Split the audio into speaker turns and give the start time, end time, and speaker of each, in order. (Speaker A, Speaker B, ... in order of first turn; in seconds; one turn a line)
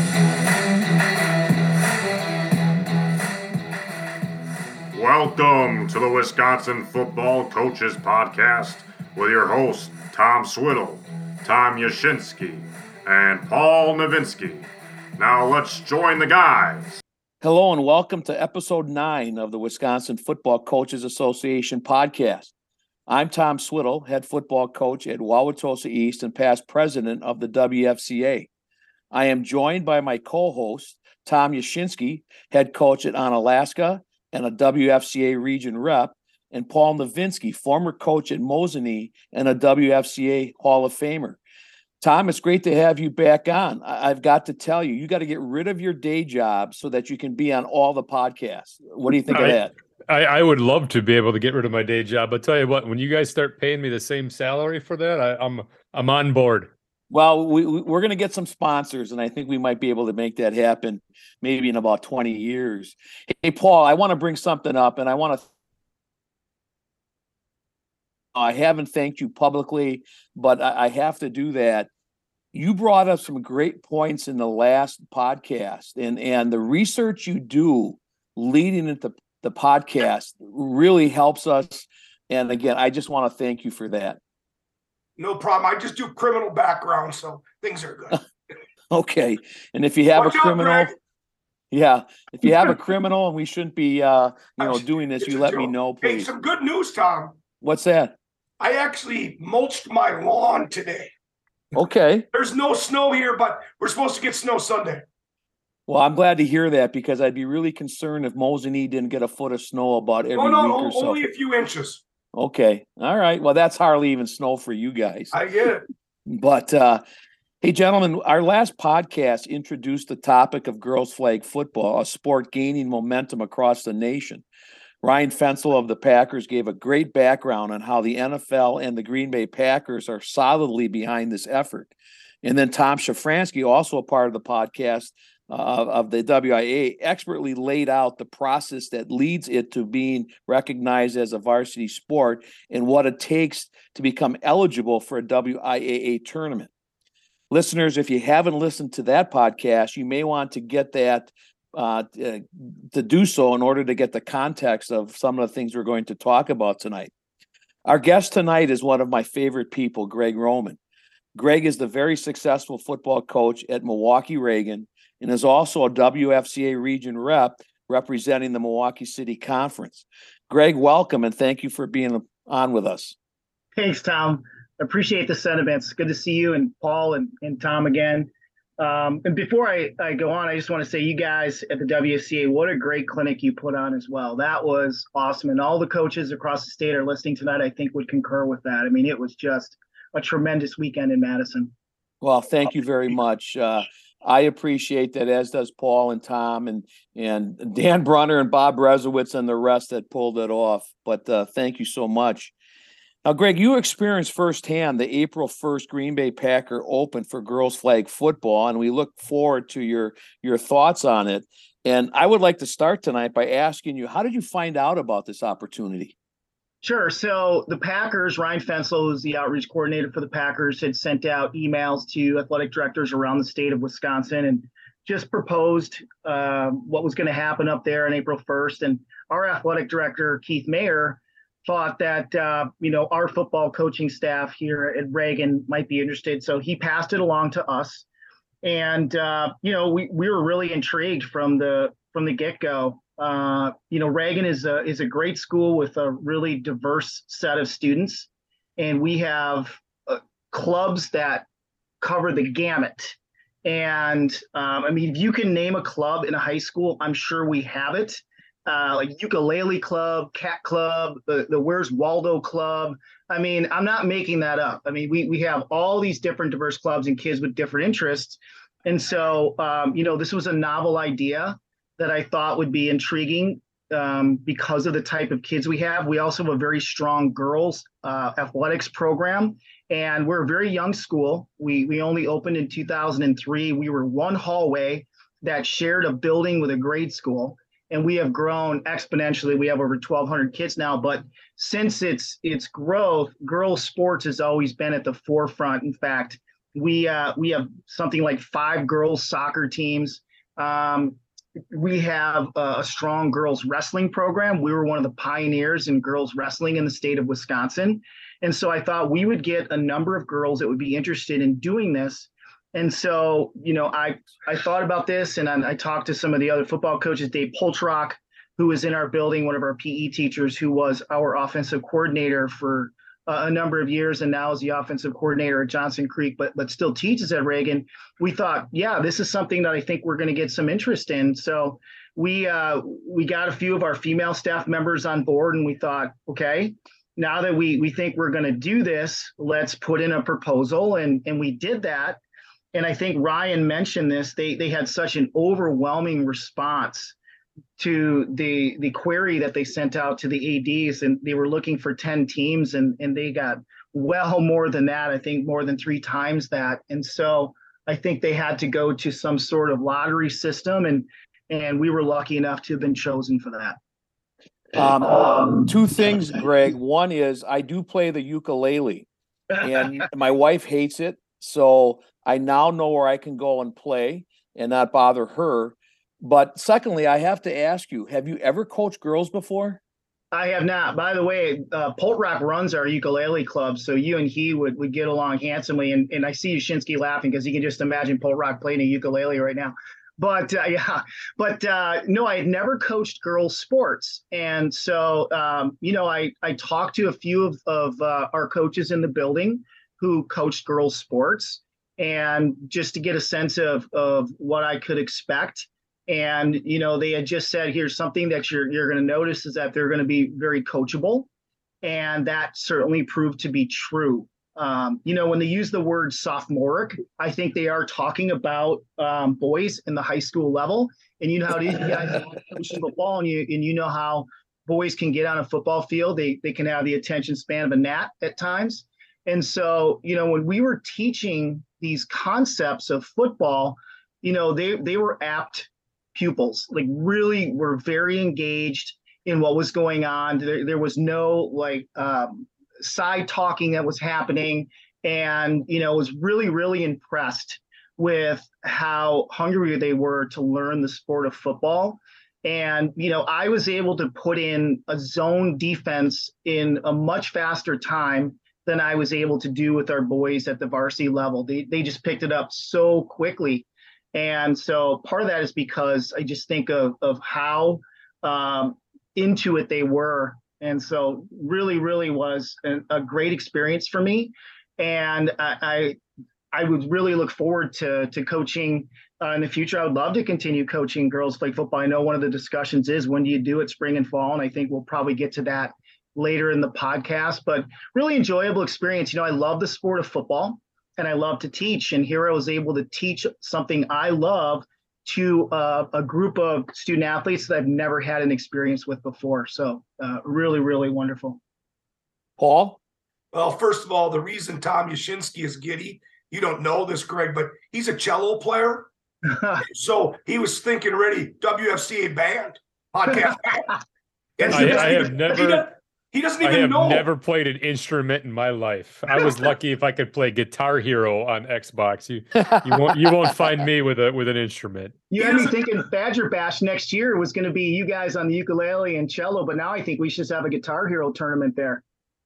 Speaker A: 4.9-17.0
Speaker B: 17.4-22.5
Speaker B: 23.1-28.5
Speaker B: 29.1-41.4
Speaker B: 42.0-49.7
Speaker C: 49.3-56.7
Speaker B: 57.1-65.5
Speaker B: 68.3-71.9
Speaker B: 72.5-84.2
Speaker D: 85.2-88.2
Speaker B: 88.9-90.9
Speaker D: 90.1-90.9
Speaker B: 91.7-96.3
Speaker D: 94.6-97.4
Speaker B: 97.6-98.1
Speaker D: 98.6-101.1
Speaker B: 101.7-102.3
Speaker D: 102.3-105.1
Speaker B: 105.9-111.2
Speaker D: 110.3-112.0
Speaker B: 112.3-115.3
Speaker D: 115.3-115.8
Speaker B: 116.3-117.0
Speaker B: 117.6-124.4
Speaker B: 125.0-146.7
Speaker B: 147.5-157.1
Speaker B: 157.8-160.8
Speaker B: 161.3-173.1
Speaker E: 173.8-191.7
Speaker B: 192.2-202.5
Speaker B: 203.2-216.1
Speaker E: 216.8-238.1
Speaker E: 238.6-251.4
Speaker E: 252.0-301.2
Speaker E: 301.7-342.2
Speaker E: 342.7-347.1
Speaker E: 347.8-363.8
Speaker B: 364.7-369.1
Speaker B: 369.6-379.8
Speaker E: 380.3-411.3
Speaker E: 411.8-476.0
Speaker E: 476.5-501.4
Speaker B: 502.4-502.8
Speaker D: 503.3-508.9
Speaker E: 509.3-509.6
Speaker D: 509.6-513.7
Speaker D: 514.4-517.0
Speaker E: 514.4-515.0
Speaker C: 514.5-515.7
Speaker C: 516.4-525.0
Speaker B: 522.5-523.0
Speaker E: 525.1-531.8
Speaker D: 525.2-525.5